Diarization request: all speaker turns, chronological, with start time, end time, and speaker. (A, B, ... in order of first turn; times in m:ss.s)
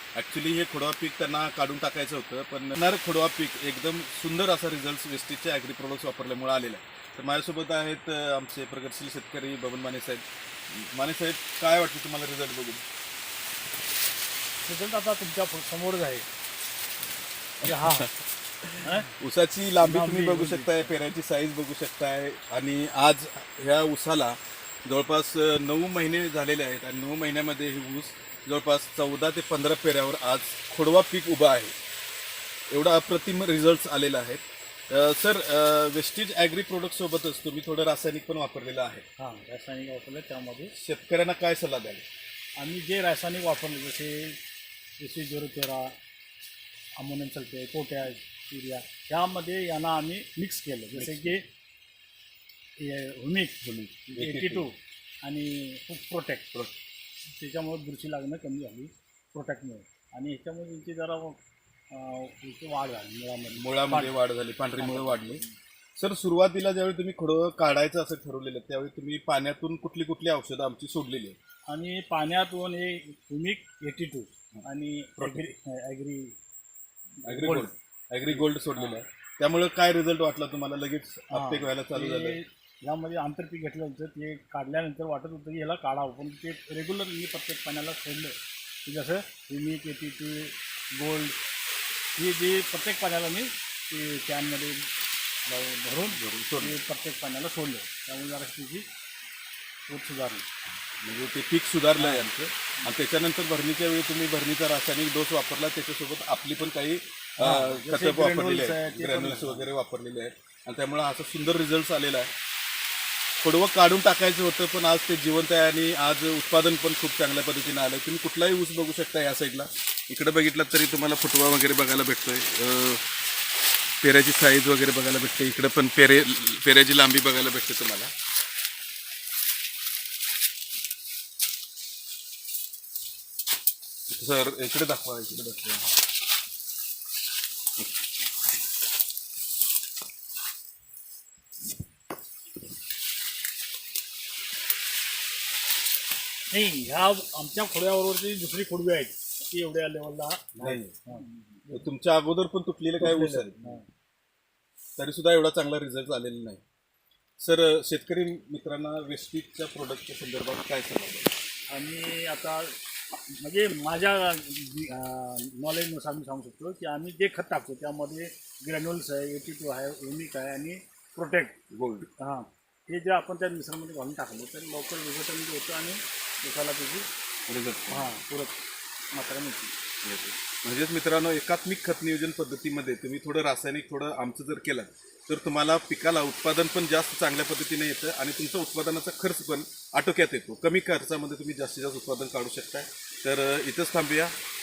0:00.2-0:12.8 A
0:14.6-0:16.3 B
0:17.6-0:18.1 A
0:17.6-0:18.1 B
0:18.6-0:31.7 A
0:18.8-0:19.1 B
0:19.8-0:20.9 B
0:32.7-0:39.0 A
0:39.2-0:40.7 B
0:40.8-0:42.0 A
0:42.6-0:44.4 B
0:45.0-0:45.9 B
0:47.0-0:51.5 B
0:50.9-0:51.4 A
0:52.8-0:56.5 B
0:53.6-0:54.7 A
0:57.2-1:01.4 B
1:01.9-1:04.2 B
1:03.6-1:05.4 A
1:04.8-1:05.6 B
1:06.0-1:11.4 A
1:11.7-1:16.4 B
1:15.2-1:15.4 A
1:17.2-1:17.7 B
1:17.2-1:22.4 A
1:18.3-1:19.0 B
1:21.3-1:28.4 B
1:28.9-1:31.4 B
1:32.2-1:34.9 B
1:35.5-1:38.9 B
1:36.1-1:36.8 A
1:39.9-1:40.5 B
1:41.0-1:52.3 A
1:42.0-1:42.3 B
1:47.4-1:49.7 B
1:53.4-2:03.0 A
2:04.0-2:08.1 A
2:14.1-2:15.9 A
2:26.5-2:31.9 B
2:30.6-2:31.0 A
2:31.7-2:33.6 A
2:33.0-2:33.9 B
2:35.0-2:36.6 A
2:37.4-2:41.3 A
2:41.7-2:51.6 B
2:51.7-2:52.1 A
2:52.2-2:57.1 B
2:57.5-2:58.1 A
2:57.9-2:58.6 B
2:59.1-2:59.7 B
3:00.0-3:14.3 A